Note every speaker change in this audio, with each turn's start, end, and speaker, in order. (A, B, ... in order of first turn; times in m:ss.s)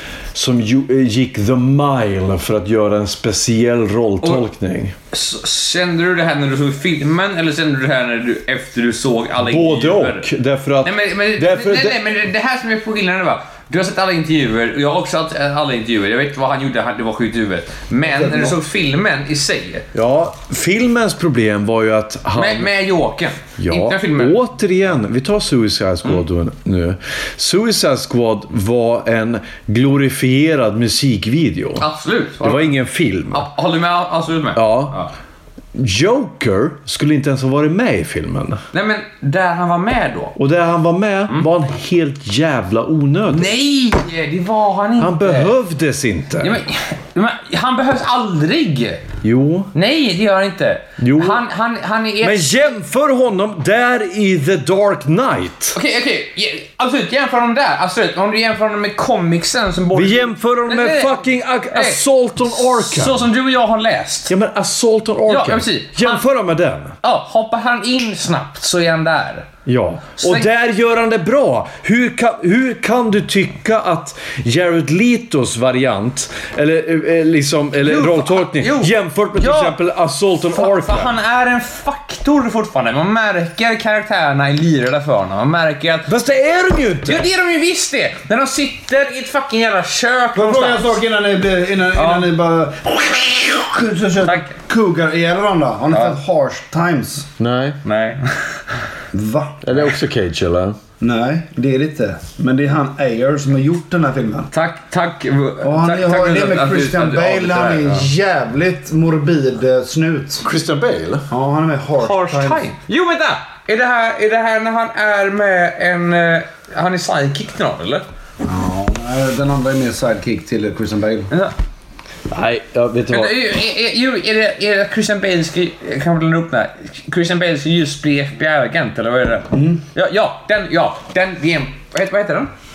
0:00.3-0:04.9 A
0:05.1-0:10.3 B
0:09.4-0:12.0 A
0:10.8-0:19.8 B
0:18.0-0:18.6 C
0:19.9-0:22.7 A
0:22.4-0:24.4 B
0:23.6-0:31.8 A
0:31.8-0:32.7 B
0:32.4-0:33.5 A
0:33.3-0:35.1 B
0:34.6-0:35.0 A
0:35.7-0:38.6 A
0:38.7-0:40.3 B
0:40.4-0:43.5 A
0:43.3-0:45.5 B
0:45.0-0:46.6 A
0:46.4-0:49.0 B
0:49.2-0:49.7 A
0:49.7-0:52.6 B
0:51.0-0:51.4 A
0:52.2-0:55.8 A
0:55.7-1:01.2 B
0:59.9-1:03.3 A
1:01.7-1:04.3 B
1:04.3-1:06.9 A
1:05.3-1:06.2 B
1:07.0-1:09.5 B
1:09.6-1:21.2 A
1:10.2-1:10.4 B
1:17.8-1:19.8 B
1:20.5-1:26.1 B
1:26.1-1:27.3 A
1:27.0-1:31.0 B
1:30.3-1:37.3 C
1:31.9-1:32.3 B
1:34.2-1:34.5 B
1:37.4-1:37.8 A
1:37.8-1:38.6 B
1:39.1-1:39.6 C
1:39.6-1:40.8 A
1:41.0-1:44.5 C
1:44.5-1:48.1 B
1:45.6-1:50.4 C
1:50.4-1:51.2 A
1:51.3-1:52.7 C
1:52.0-1:58.0 B
1:58.4-2:01.3 C
2:02.3-2:03.3 A
2:03.1-2:12.5 B
2:09.5-2:09.8 C